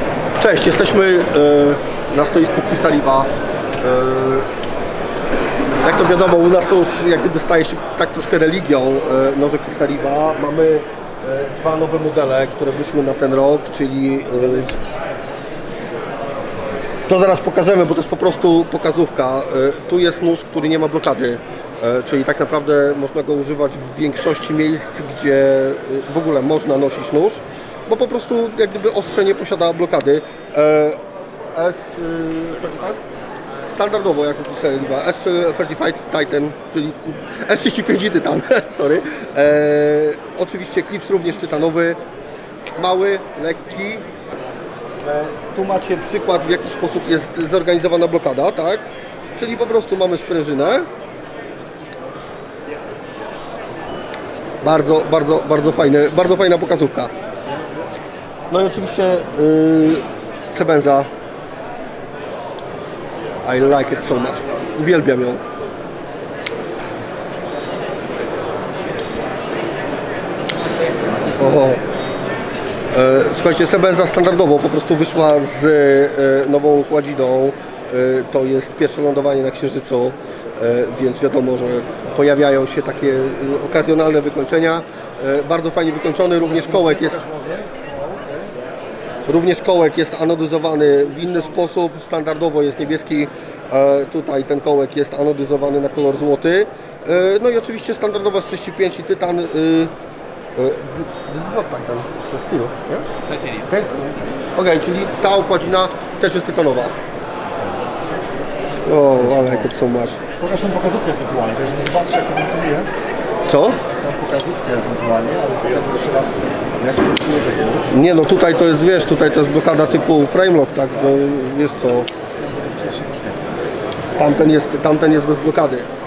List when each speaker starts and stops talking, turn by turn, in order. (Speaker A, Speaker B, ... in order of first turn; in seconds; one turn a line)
Speaker A: 0.4-4.5
Speaker A: 5.8-14.8
Speaker A: 17.1-31.0
Speaker A: 31.5-33.0
Speaker A: 33.7-42.0
Speaker A: 42.8-44.1
Speaker A: 45.0-50.9
Speaker A: 54.6-57.1
Speaker A: 58.5-61.1
Speaker A: 63.4-65.4
Speaker A: 71.3-71.8
Speaker A: 72.9-87.2
Speaker B: 86.4-88.5
Speaker A: 89.3-99.9
Speaker A: 100.6-103.1
Speaker A: 103.6-107.0
Speaker A: 108.8-110.2
Speaker B: 109.2-109.7
Speaker B: 110.4-112.9
Speaker A: 113.5-113.8
Speaker B: 113.9-117.9
Speaker A: 117.9-122.1
Speaker B: 122.4-123.4
Speaker A: 124.2-125.9